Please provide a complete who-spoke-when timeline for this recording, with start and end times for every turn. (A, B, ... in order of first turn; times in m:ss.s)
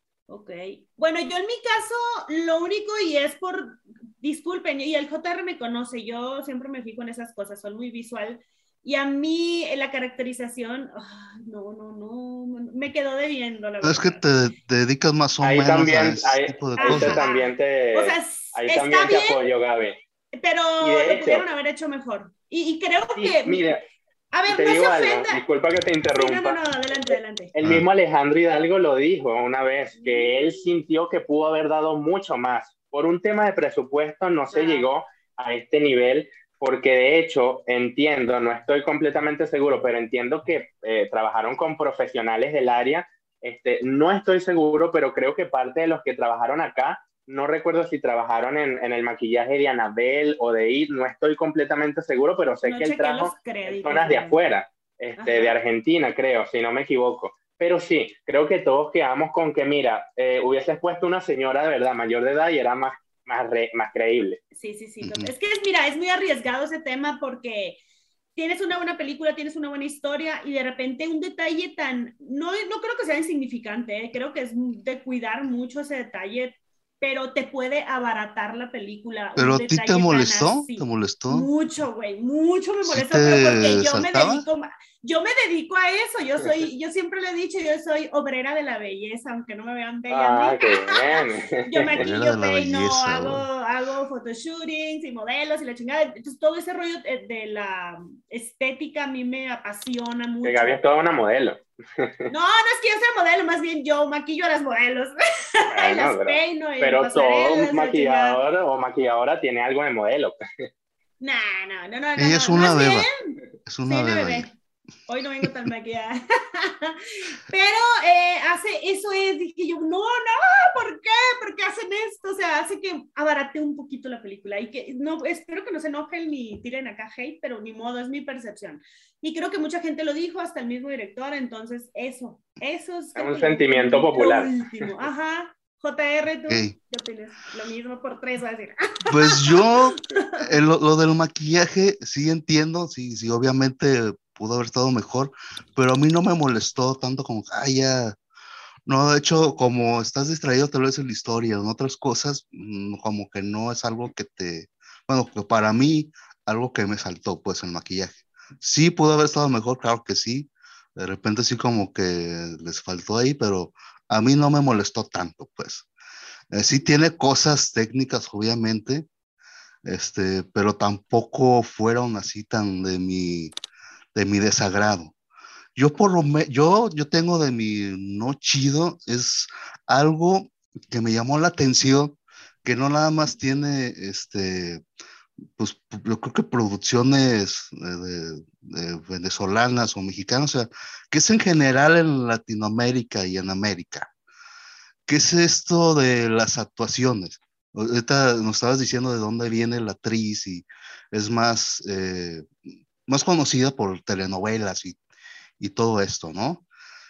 0:00.3-0:14.2 A
0:13.8-0:17.2 B
0:15.4-0:20.0 C
0:16.8-0:19.4 A
0:20.4-0:23.6 A
0:20.8-0:21.4 C
0:23.2-0:23.8 C
0:24.3-0:25.4 A
0:24.5-0:26.6 C
0:26.1-0:27.5 A
0:27.1-1:04.4 C
0:30.0-0:30.6 A
0:34.5-0:34.9 A
0:52.6-0:54.4 A
0:55.2-0:55.5 A
1:04.5-1:07.8 A
1:05.0-1:05.3 B
1:08.4-1:40.7 A
1:19.4-1:21.5 B
1:22.8-1:24.4 B
1:30.1-1:32.0 C
1:31.8-1:33.4 B
1:40.4-1:42.3 C
1:42.3-1:48.4 A
1:45.7-1:50.6 C
1:51.2-1:53.3 A
1:52.2-1:53.1 B
1:53.6-1:54.5 B
1:53.8-1:54.5 A
1:55.1-2:20.5 A
2:13.2-2:14.9 C
2:16.5-2:16.7 B
2:19.1-2:28.2 B
2:28.9-2:45.9 B
2:46.5-2:49.1 B
2:49.8-2:53.5 B
2:54.1-2:55.1 B
2:55.8-3:04.8 B
3:05.6-3:14.1 B
3:15.1-3:22.5 B
3:23.0-3:25.0 B
3:25.6-3:26.6 B